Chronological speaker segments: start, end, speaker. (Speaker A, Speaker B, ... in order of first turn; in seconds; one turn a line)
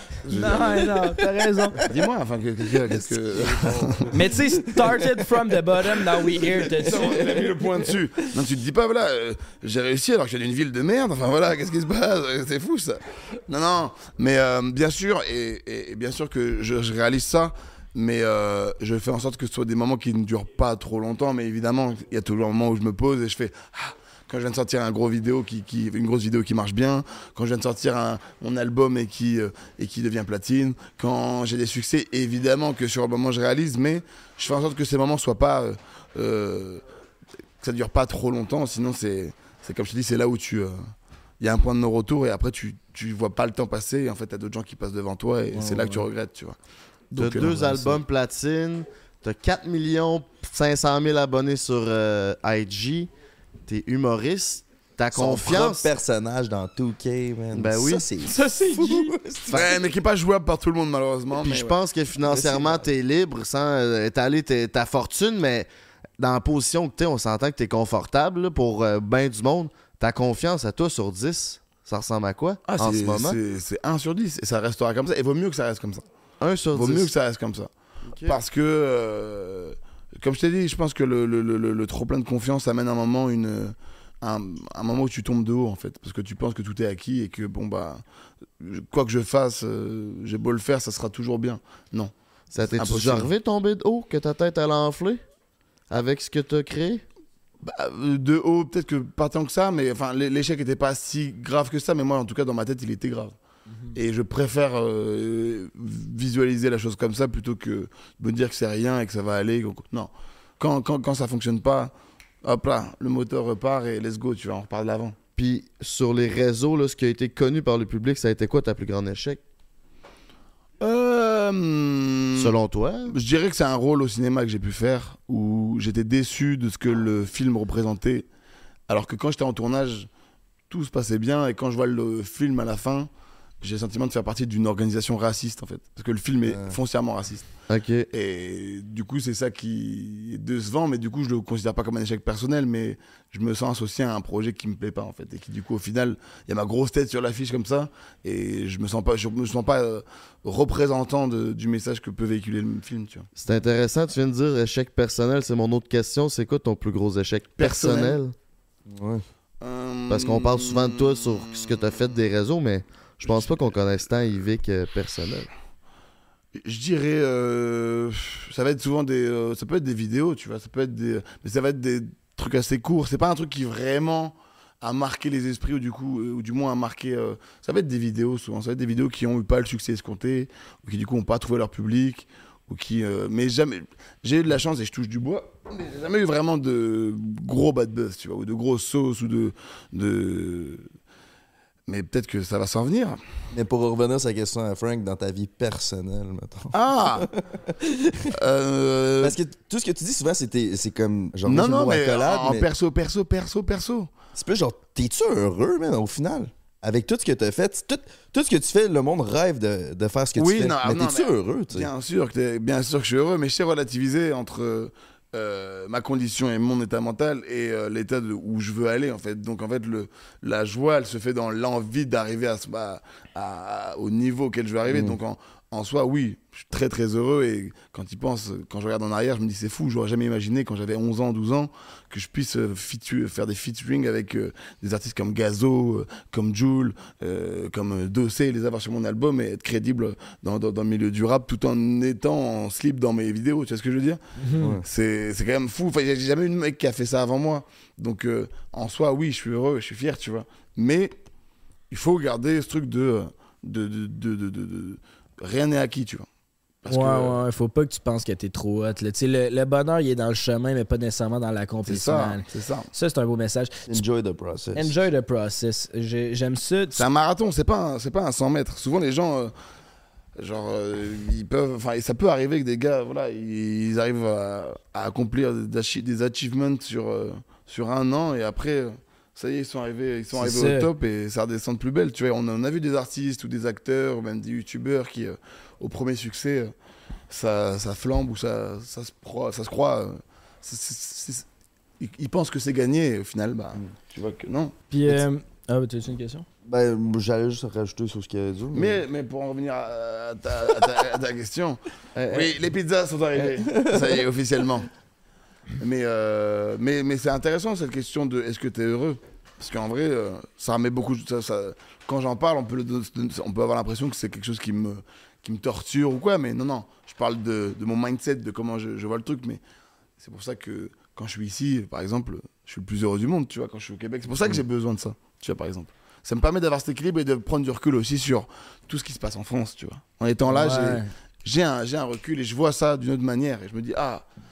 Speaker A: 0.3-0.9
Speaker B: 0.3-1.8
Speaker A: 1.8-4.1
Speaker C: 2.9-5.2
Speaker B: 4.1-7.2
Speaker C: 6.1-7.5
Speaker A: 6.8-36.8
Speaker A: 37.6-40.8
Speaker A: 41.4-46.6
Speaker B: 45.5-46.0
Speaker A: 47.1-47.9
Speaker D: 47.1-53.1
Speaker D: 53.7-55.9
Speaker C: 55.1-59.8
Speaker D: 57.5-58.1
Speaker B: 58.2-59.1
Speaker A: 59.5-61.8
Speaker D: 61.4-65.7
Speaker C: 62.3-62.8
Speaker D: 66.2-73.4
Speaker A: 72.7-76.0
Speaker D: 76.4-77.1
Speaker A: 76.7-77.7
Speaker D: 78.0-78.4
Speaker A: 78.2-88.0
Speaker A: 88.6-92.1
Speaker D: 92.5-95.2
Speaker A: 92.7-93.3
Speaker D: 95.9-97.0
Speaker A: 97.6-103.3
Speaker A: 104.0-111.9
Speaker A: 112.4-115.2
Speaker D: 115.4-119.4
Speaker A: 120.8-122.5
Speaker D: 122.3-123.2
Speaker A: 123.1-128.3
Speaker A: 128.9-130.1
Speaker A: 130.7-133.1
Speaker A: 133.6-137.5
Speaker C: 136.5-136.8
Speaker D: 137.7-138.1
Speaker A: 138.1-153.3
Speaker D: 153.4-158.3
Speaker A: 157.6-158.2
Speaker C: 158.9-159.2
Speaker A: 159.6-162.0
Speaker D: 160.1-165.5
Speaker A: 163.2-163.7
Speaker A: 166.6-190.9
Speaker A: 191.9-193.2
Speaker C: 193.5-198.3
Speaker A: 196.7-197.3
Speaker A: 198.3-199.4
Speaker C: 199.2-202.7
Speaker A: 201.4-204.1
Speaker C: 204.3-211.9
Speaker A: 210.4-244.2
Speaker C: 224.9-225.2
Speaker B: 244.4-244.8
Speaker C: 244.6-244.8
Speaker A: 244.8-251.1
Speaker A: 251.9-256.3
Speaker A: 256.8-257.4
Speaker B: 256.9-263.7
Speaker A: 261.9-262.9
Speaker C: 263.9-264.9
Speaker B: 264.8-267.0
Speaker A: 266.9-269.5
Speaker A: 270.4-286.7
Speaker B: 280.4-280.9
Speaker A: 287.3-291.4
Speaker A: 292.0-294.8
Speaker B: 294.9-296.5
Speaker C: 296.7-299.0
Speaker A: 298.7-304.9
Speaker D: 302.2-302.5
Speaker C: 303.4-304.2
Speaker A: 305.8-319.6
Speaker A: 320.2-334.2
Speaker B: 330.5-331.1